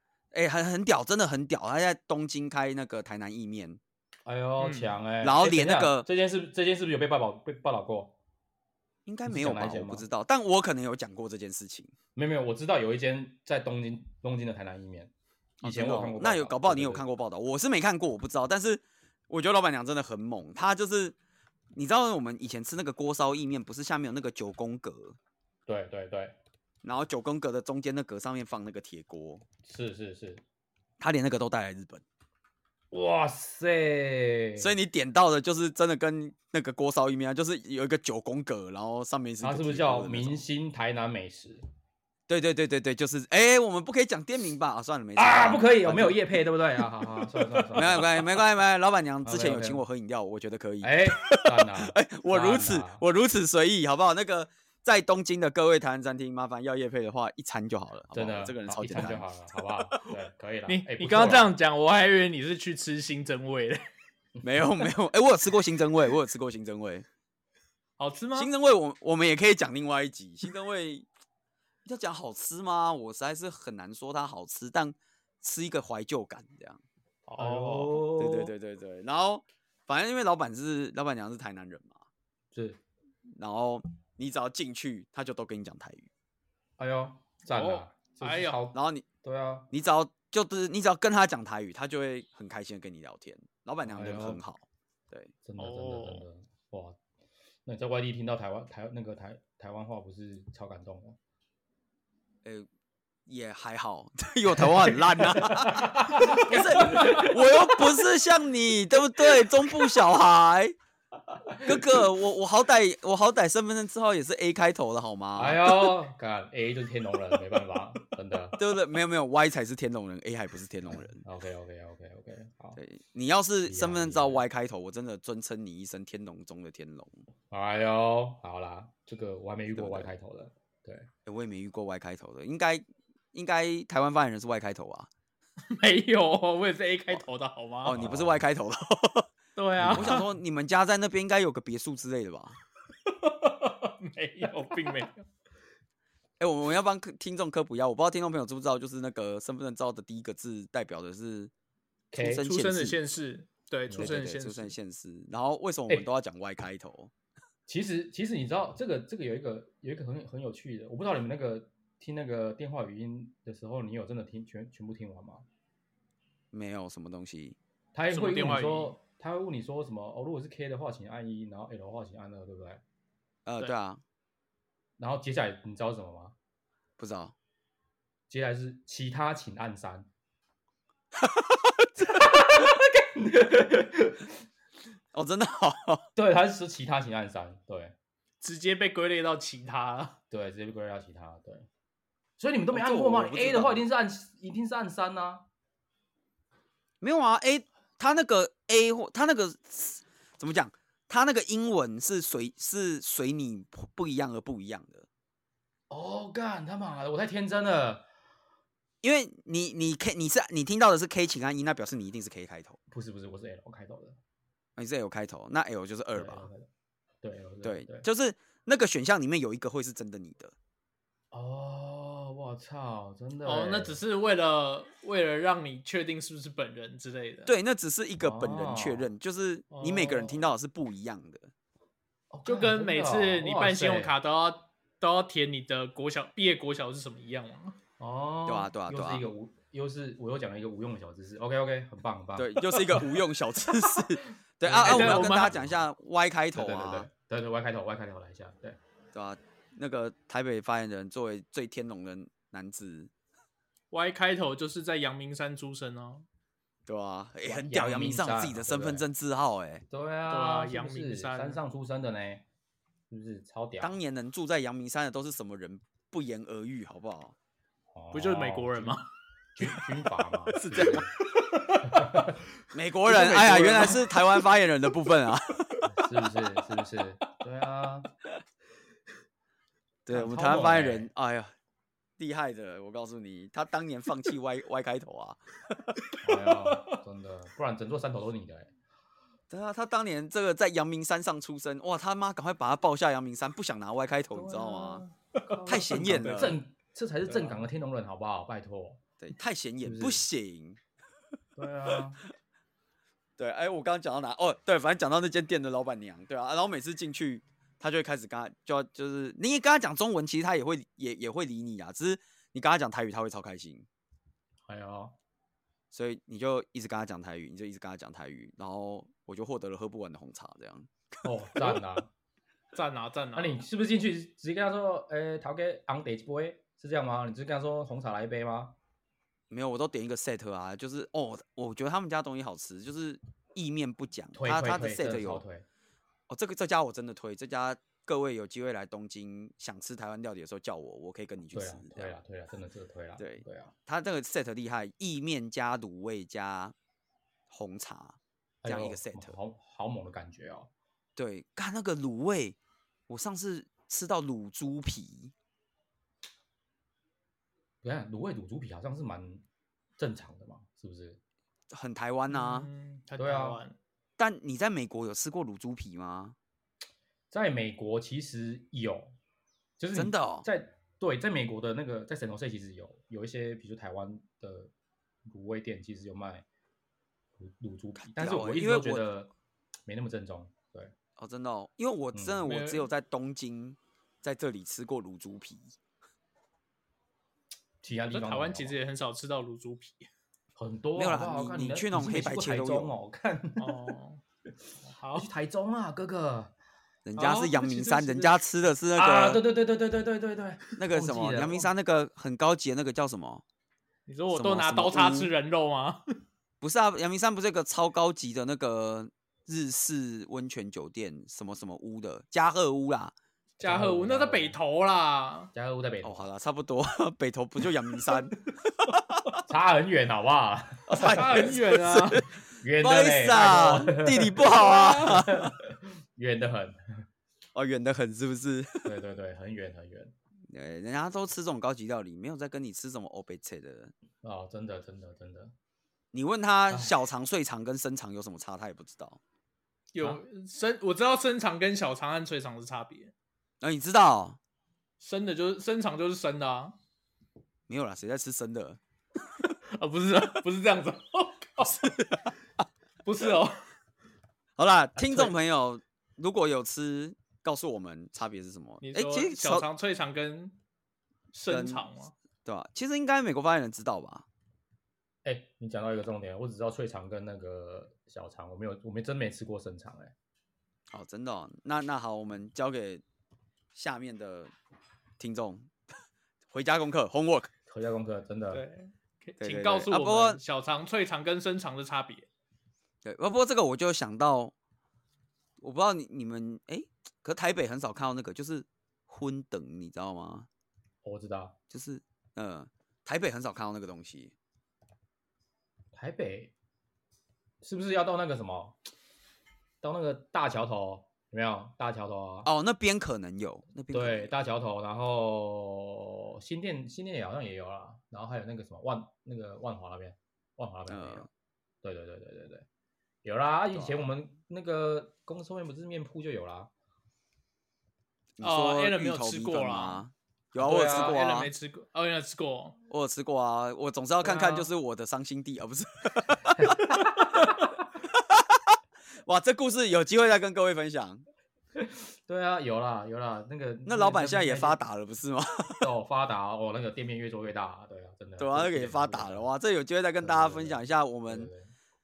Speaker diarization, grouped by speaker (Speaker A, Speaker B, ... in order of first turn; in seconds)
Speaker A: 0.3-3.8, 5.2-6.1, 9.1-11.9, 15.6-21.2, 21.7-25.2, 26.8-29.4, 31.0-32.0, 34.6-40.4, 42.3-46.2, 47.8-59.3, 64.4-67.1, 68.3-71.1, 71.8-76.8, 78.2-82.0, 83.4-86.1, 88.7-89.1, 89.7-95.3, 103.3-110.8, 111.7-116.0, 118.6-121.2, 122.8-127.2, 129.7-130.1, 131.3-135.1, 137.8-139.3, 139.8-142.6, 146.4-151.5, 152.1-153.0, 153.9-157.1, 166.5-167.6, 173.5-174.0, 177.0-177.3, 181.2-181.9, 185.1-186.1, 192.7-193.9, 197.0-205.1, 209.0-212.8, 214.8-216.5, 217.6-220.6, 227.5-231.5, 238.5-239.3, 242.4-247.1, 249.1-253.1, 256.9-259.9, 263.8-267.4, 270.6-271.1, 272.7-275.8, 280.1-281.5, 282.2-285.4, 289.5-295.0, 295.7-296.6, 299.2-300.8, 303.4-313.9, 315.9-320.9, 329.5-335.4, 336.3-342.2, 343.2-346.8, 347.5-349.4, 351.2-352.6, 353.1-355.3, 361.7-362.7, 364.2-366.4, 369.9-370.5, 378.0-379.1, 381.2-385.8, 391.0-392.9, 397.1-399.4, 400.8-403.4, 404.3-405.3, 406.6-413.1, 416.0-418.4, 419.0-419.3, 420.9-425.5, 427.5-428.9, 430.5-433.9, 436.1-439.2, 443.6-444.4, 447.7-448.8, 451.6-452.3, 454.6-459.7, 461.5-461.8, 462.4-464.3, 470.9-473.0, 473.7-474.5, 475.2-475.7, 476.5-477.5, 479.4-480.4, 483.0-484.5, 485.6-490.5, 491.7-494.4, 502.4-504.3, 510.9-511.3, 513.7-514.0, 518.4-521.5, 522.9-526.8, 528.1-528.6, 529.2-531.3, 533.9-535.9, 538.4-541.5
Speaker B: 4.3-8.1, 9.3-10.1, 12.2-17.1, 25.7-26.4, 29.6-30.4, 32.9-34.7, 39.4-41.6, 45.2-48.3, 49.2-49.8, 50.8-53.0, 58.1-61.5, 77.4-78.5, 82.5-82.8, 86.8-89.7, 93.9-94.4, 95.5-97.0, 97.7-101.2, 105.2-107.5, 111.3-111.8, 115.4-118.6, 120.9-122.8, 123.7-124.4, 127.5-131.1, 138.0-138.4, 139.8-140.2, 153.9-154.1, 157.7-165.4, 167.9-172.8, 175.0-176.3, 178.3-180.1, 182.0-184.3, 186.2-187.9, 190.3-191.7, 192.4-195.4, 205.9-208.1, 212.9-214.2, 216.1-216.7, 217.2-218.1, 221.3-224.0, 228.2-229.1, 232.3-234.1, 238.0-243.0, 244.6-245.8, 246.5-248.8, 257.4-259.1, 259.9-262.4, 263.1-263.9, 267.9-269.0, 269.6-271.1, 271.9-272.4, 275.9-278.1, 280.1-281.1, 286.2-288.7, 294.4-299.0, 299.8-300.2, 301.6-302.2, 314.7-315.1, 321.2-322.1, 323.4-328.8, 334.3-335.6, 341.5-343.7, 348.6-350.7, 357.8-359.4, 360.0-361.2, 363.2-363.6, 367.3-369.1, 369.8-374.7, 375.3-376.5, 377.4-379.3, 379.9-380.9, 382.1-382.7, 387.8-388.8, 390.6-393.7, 395.1-396.5, 397.2-397.4, 399.0-401.7, 413.6-414.6, 415.5-416.3, 419.4-421.5, 422.6-424.4, 425.0-427.1, 428.9-430.1, 434.2-435.5, 436.7-437.0, 465.2-470.1, 477.7-478.6, 491.0-491.6, 495.9-496.5, 497.6-498.8, 499.8-502.5, 503.9-511.3, 511.8-512.6, 513.2-516.7, 520.6-521.2, 524.2-524.6, 526.5-527.3, 531.8-534.8, 535.8-539.5, 540.2-541.7
Speaker C: 4.6-4.9, 60.7-63.8, 68.0-68.5, 77.3-78.1, 87.5-88.6, 95.6-96.2, 135.7-138.1, 139.6-140.3, 143.2-145.2, 152.2-154.7, 168.1-169.0, 188.4-190.2, 223.4-227.5, 229.7-230.4, 232.5-237.8, 244.8-245.5, 253.9-256.2, 260.3-261.6, 268.1-269.1, 271.4-272.0, 273.1-274.0, 295.5-296.5, 322.7-323.6, 362.3-363.8, 382.5-382.7, 388.1-390.1, 393.6-394.2, 394.9-395.3, 397.2-398.3, 404.1-406.0, 413.6-415.5, 421.1-422.2, 424.6-424.9, 439.9-443.1, 445.0-446.8, 449.7-452.0, 453.1-453.6, 455.0-455.3, 458.8-460.6, 461.3-462.1, 478.5-482.3, 518.4-520.0, 520.6-522.8